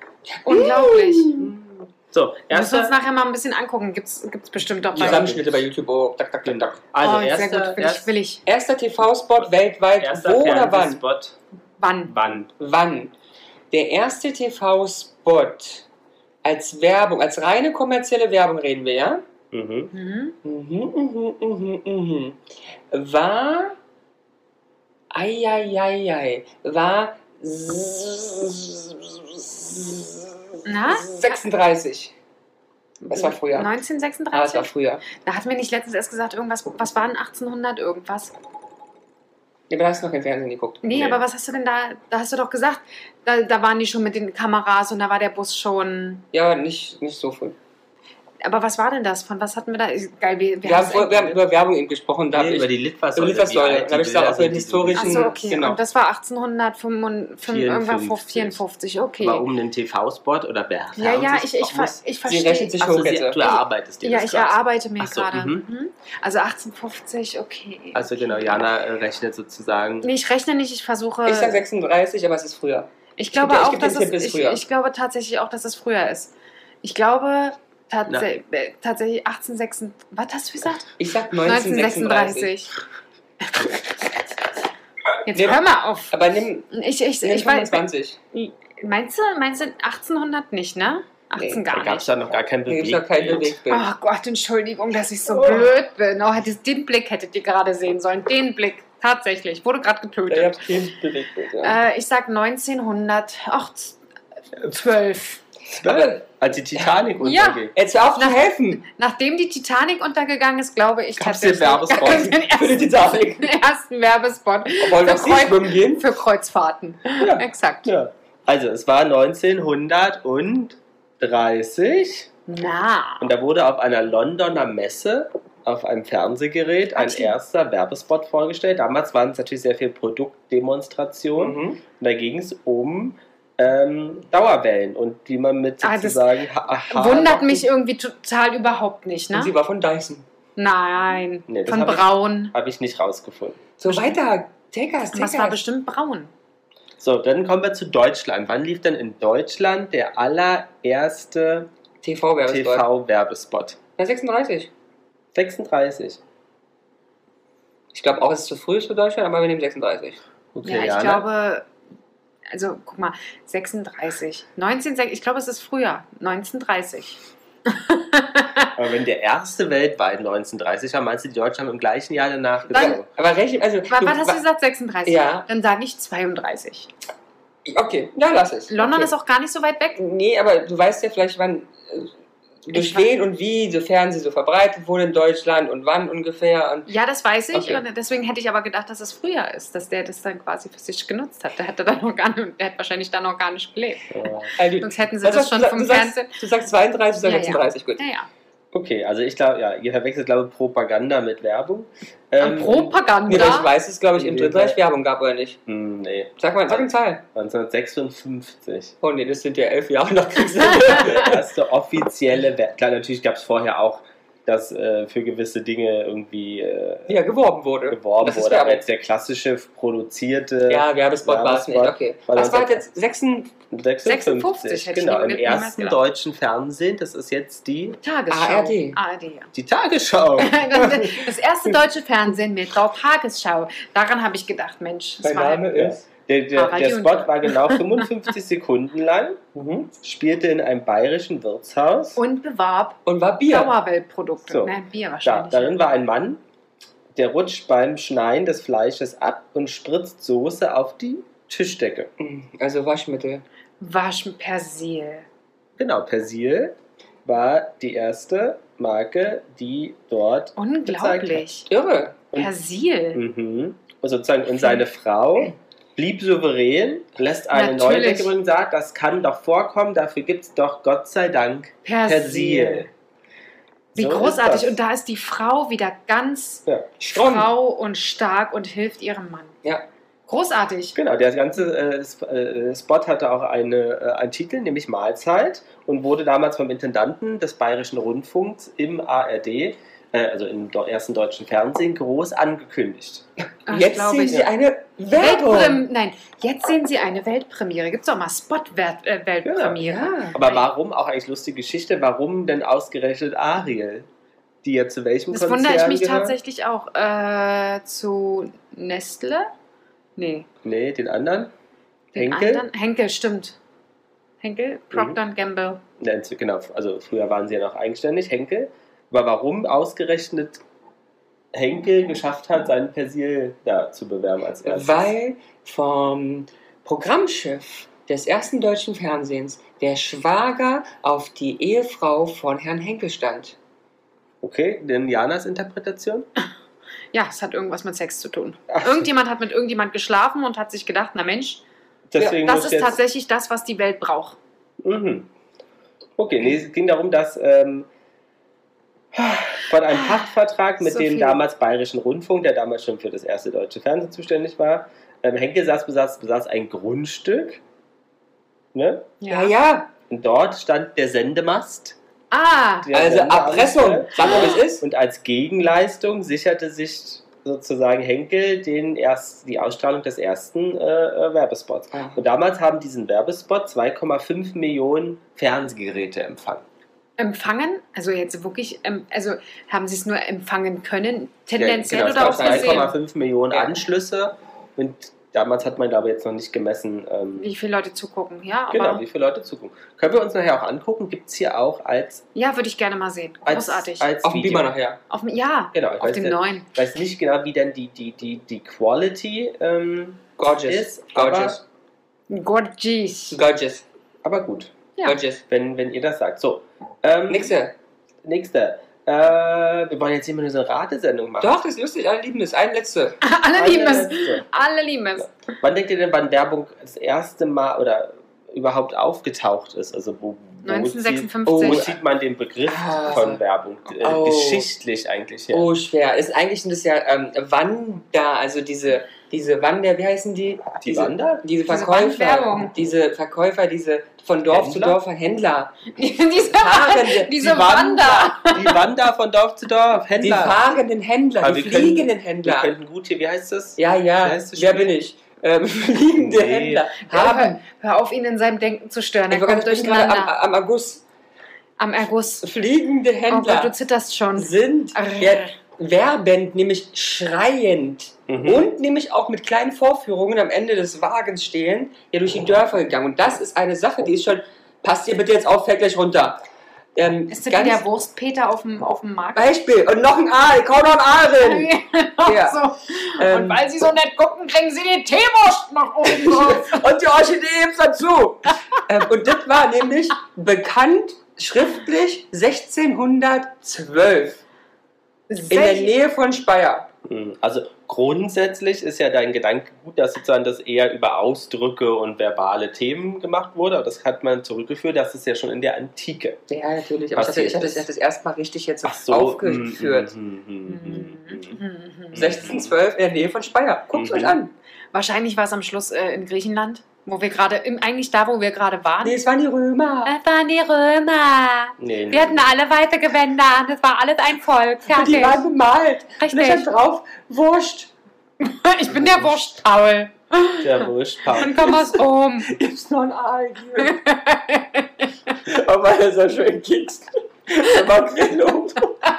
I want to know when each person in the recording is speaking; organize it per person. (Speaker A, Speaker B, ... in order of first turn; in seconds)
Speaker A: 0.3-1.5, 4.9-6.8, 8.4-11.0, 12.6-13.1, 13.7-15.9, 16.4-19.2, 20.4-22.4, 22.9-23.8, 25.1-32.1, 33.1-33.7, 34.3-35.0, 39.7-41.2, 46.3-47.6, 50.6-55.8, 62.2-63.4, 71.2-74.6, 81.0-82.5, 85.3-86.7, 87.2-88.2, 92.7-93.9, 100.3-101.8, 105.8-106.2, 107.7-108.8, 111.7-113.5, 114.8-116.1, 131.4-131.8, 139.3-140.2, 143.8-145.6, 152.0-152.9, 154.0-154.7, 157.9-160.2, 172.7-174.4, 175.1-175.4, 177.6-179.1, 180.0-182.1, 182.6-186.9, 187.5-187.8, 194.6-198.0, 203.3-205.6, 206.4-207.2, 209.0-211.4, 217.1-218.8, 220.7-223.5, 228.3-229.0, 235.2-236.0, 239.5-239.9, 243.1-243.7, 252.2-253.4, 261.7-262.1, 277.0-277.5, 293.7-295.8, 299.8-300.4, 324.6-333.6, 359.3-359.9, 362.9-364.8, 371.9-372.2, 382.2-382.9, 394.2-395.0, 400.4-401.6, 403.3-403.8, 405.0-405.4, 407.3-407.7, 411.4-413.2, 421.4-421.9, 422.7-423.4, 424.0-424.7, 425.5-437.4, 440.2-442.7, 443.8-447.6, 449.3-451.0, 452.4-453.7, 454.4-466.4, 466.9-467.8, 469.3-471.7, 472.2-472.6, 473.1-473.6, 476.1-484.4, 485.5-486.9, 496.5-500.1, 502.1-504.5, 509.0-510.1, 514.9-517.9, 521.4-524.0, 525.5-529.0
Speaker B: 0.5-1.4, 2.5-5.3, 7.0-8.4, 11.8-12.1, 19.9-20.4, 30.6-31.4, 33.0-38.3, 40.8-46.2, 48.4-51.4, 54.9-59.5, 61.0-62.8, 63.4-68.7, 70.0-71.6, 73.2-82.7, 83.4-84.1, 85.2-86.1, 86.7-92.1, 93.7-100.7, 101.6-104.0, 104.6-105.5, 107.2-117.9, 122.5-123.3, 126.9-127.3, 135.8-139.5, 140.6-142.5, 143.9-144.2, 145.1-146.3, 160.6-161.7, 162.5-168.7, 173.9-176.9, 178.7-180.0, 182.7-183.1, 186.9-196.3, 197.2-198.3, 202.4-203.7, 224.0-226.0, 228.0-229.5, 230.4-235.7, 236.5-237.9, 242.2-245.8, 253.8-255.2, 260.6-261.7, 262.3-263.2, 267.5-268.3, 271.8-272.9, 273.9-276.6, 277.1-279.6, 280.3-280.9, 293.7-294.5, 295.1-300.6, 305.3-309.5, 310.2-310.5, 312.1-313.6, 314.4-315.8, 337.1-341.6, 342.2-344.4, 349.9-350.2, 350.8-351.4, 359.2-359.5, 362.3-362.9, 377.2-382.9, 387.4-389.0, 392.3-394.1, 395.1-396.7, 402.3-403.4, 413.2-415.3, 420.6-421.9, 431.7-432.7, 435.9-438.8, 447.1-450.3, 451.8-452.4, 453.3-455.5, 467.3-469.6, 471.4-476.9, 485.3-485.9, 500.6-502.3, 504.9-509.2, 510.1-515.4, 516.2-516.7, 518.4-522.5, 523.8-525.1
Speaker C: 1.4-3.0, 4.9-5.6, 6.4-8.1, 9.4-11.3, 12.1-12.5, 19.5-19.9, 52.3-55.5, 57.4-58.6, 59.2-62.0, 62.8-65.6, 67.9-70.1, 91.7-93.6, 105.7-107.7, 111.2-112.3, 117.2-122.3, 123.2-137.7, 141.5-143.6, 147.0-151.7, 152.5-153.8, 155.3-156.2, 160.5-161.2, 168.7-173.1, 194.1-194.5, 198.7-202.9, 204.1-204.8, 205.7-208.9, 210.8-217.1, 217.9-222.8, 223.7-228.0, 229.5-231.3, 235.7-239.4, 239.9-242.2, 244.5-246.4, 247.1-252.1, 255.8-261.5, 263.1-272.9, 273.9-274.8, 280.9-293.2, 299.4-299.8, 300.3-304.1, 304.6-306.4, 310.6-311.5, 312.1-312.7, 314.9-315.2, 316.0-320.6, 321.5-325.1, 334.4-336.3, 338.7-339.1, 342.1-343.0, 344.8-345.3, 346.2-347.9, 349.1-357.6, 358.7-359.1, 360.1-362.0, 362.8-376.6, 381.6-387.5, 388.7-392.2, 393.4-394.7, 395.7-401.6, 404.2-404.7, 405.5-407.6, 408.2-411.6, 413.5-414.4, 415.2-425.7, 430.8-431.4, 434.5-435.0, 437.4-440.6, 441.4-444.9, 446.1-446.9, 458.3-458.7, 487.0-496.4, 497.1-497.9, 498.8-501.6, 502.1-502.8, 503.9-504.4, 511.8-512.5, 515.0-515.4, 518.9-519.3, 520.6-521.8